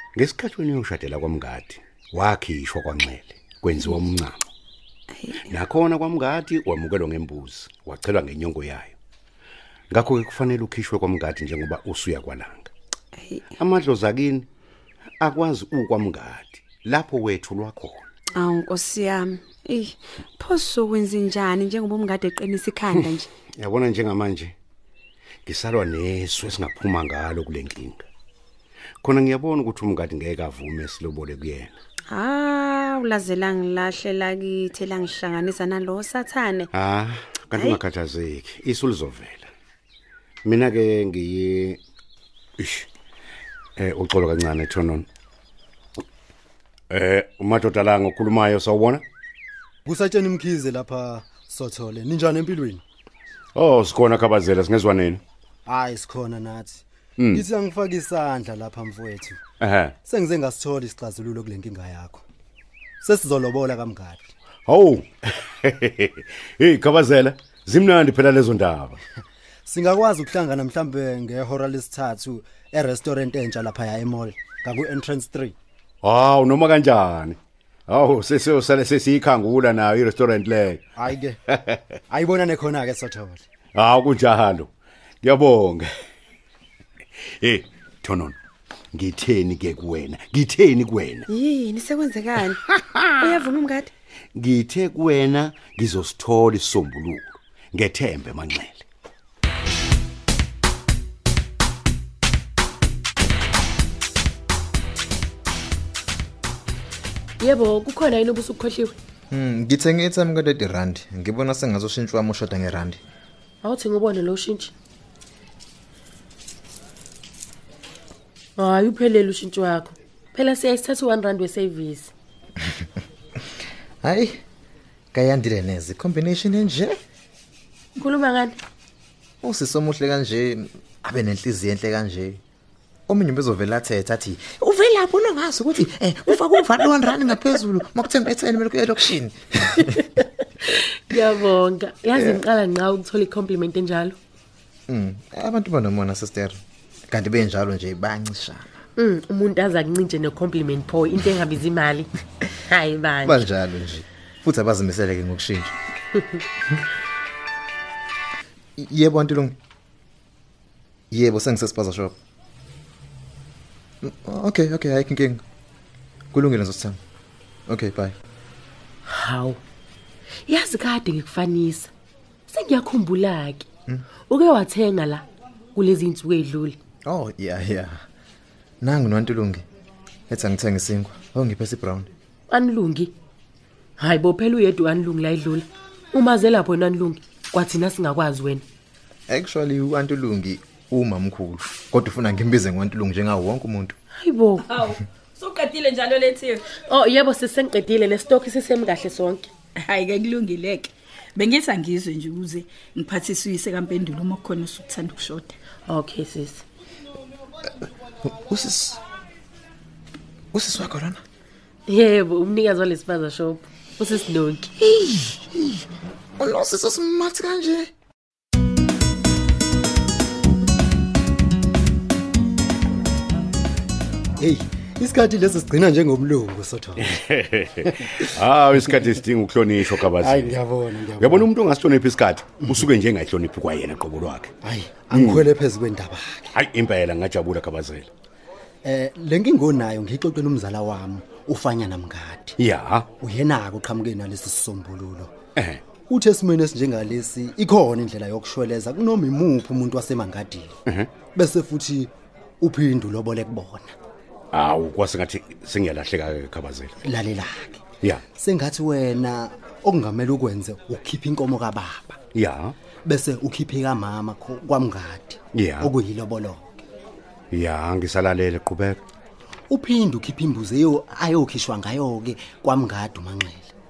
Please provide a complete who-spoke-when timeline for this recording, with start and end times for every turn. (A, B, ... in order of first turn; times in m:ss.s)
0:00.2-0:04.5 A
0:05.1-0:05.5 B
0:05.4-0:08.9 A
0:09.9-0:12.7 A
0:13.2-0:13.4 B
0:13.6-0:14.5 A
0:15.2-0:18.1 A
0:18.4-0:23.3 B
0:23.0-0:24.5 A
0:25.5-0:28.0 A
0:29.0-0:31.8 A
0:32.1-0:36.7 B
0:36.7-0:39.5 A
0:40.4-0:41.8 A
0:42.6-0:42.9 A
0:43.8-0:45.1 A
0:46.9-0:49.0 A
0:49.8-0:52.8 C
0:53.6-0:55.2 A
0:55.7-0:59.4 C
0:57.2-0:57.4 A
0:59.6-1:00.0 A
1:00.1-1:02.2 C
1:03.0-1:04.3 C
1:04.7-1:09.0 A
1:09.7-1:15.6 C
1:16.0-1:20.8 A
1:21.0-1:21.4 C
1:21.5-1:21.8 A
1:22.1-1:23.4 C
1:23.8-1:24.7 A
1:25.2-1:25.9 A
1:27.4-1:28.4 A
1:28.9-1:31.3 A
1:31.3-1:32.6 B
1:32.8-1:33.5 A
1:33.2-1:33.9 B
1:34.4-1:38.8 A
1:47.4-1:49.0 D
1:49.3-1:53.0 E
1:53.6-1:54.7 D
1:58.6-2:02.1 D
2:04.0-2:04.4 E
2:05.1-2:07.0 E
2:08.0-2:08.6 D
2:09.4-2:12.4 E
2:13.1-2:20.1 E
2:21.1-2:24.2 D
2:22.2-2:22.4 E
2:24.9-2:26.6 E
2:27.1-2:28.8 E
2:29.0-2:33.4 D
2:33.2-2:35.7 E
2:38.8-2:39.6 E
2:41.1-2:42.2 E
2:44.0-2:45.4 E
2:46.3-2:47.0 E
2:47.7-2:48.2 E
2:49.1-2:49.6 D
2:50.5-2:51.9 D
2:52.5-2:53.7 D
2:54.3-2:56.8 D
2:57.0-2:58.0 E
2:58.8-2:59.6 E
3:00.3-3:02.1 E
3:02.5-3:03.1 D
3:04.0-3:08.6 D
3:09.3-3:14.0 E
3:14.2-3:14.7 D
3:16.9-3:19.5 D
3:19.9-3:20.8 F
3:21.4-3:25.6 F
3:25.9-3:26.6 D
3:28.2-3:29.0 E
3:30.5-3:31.2 E
3:31.9-3:34.7 D
3:34.8-3:35.8 E
3:36.4-3:37.9 E
3:44.4-3:47.2 C
3:47.2-3:50.6 A
3:48.0-3:48.3 C
3:50.1-3:51.5 C
3:51.2-3:54.5 A
3:54.6-3:56.5 C
3:55.1-3:55.5 A
3:56.5-3:58.1 A
3:58.8-4:02.6 C
4:02.6-4:03.1 A
4:03.2-4:05.4 C
4:05.6-4:05.8 A
4:06.1-4:10.7 C
4:11.3-4:14.0 C
4:14.5-4:17.0 A
4:17.0-4:17.8 C
4:18.4-4:22.2 C
4:22.3-4:22.8 A
4:23.0-4:26.7 C
4:25.5-4:25.9 A
4:27.5-4:29.0 A
4:29.7-4:33.7 C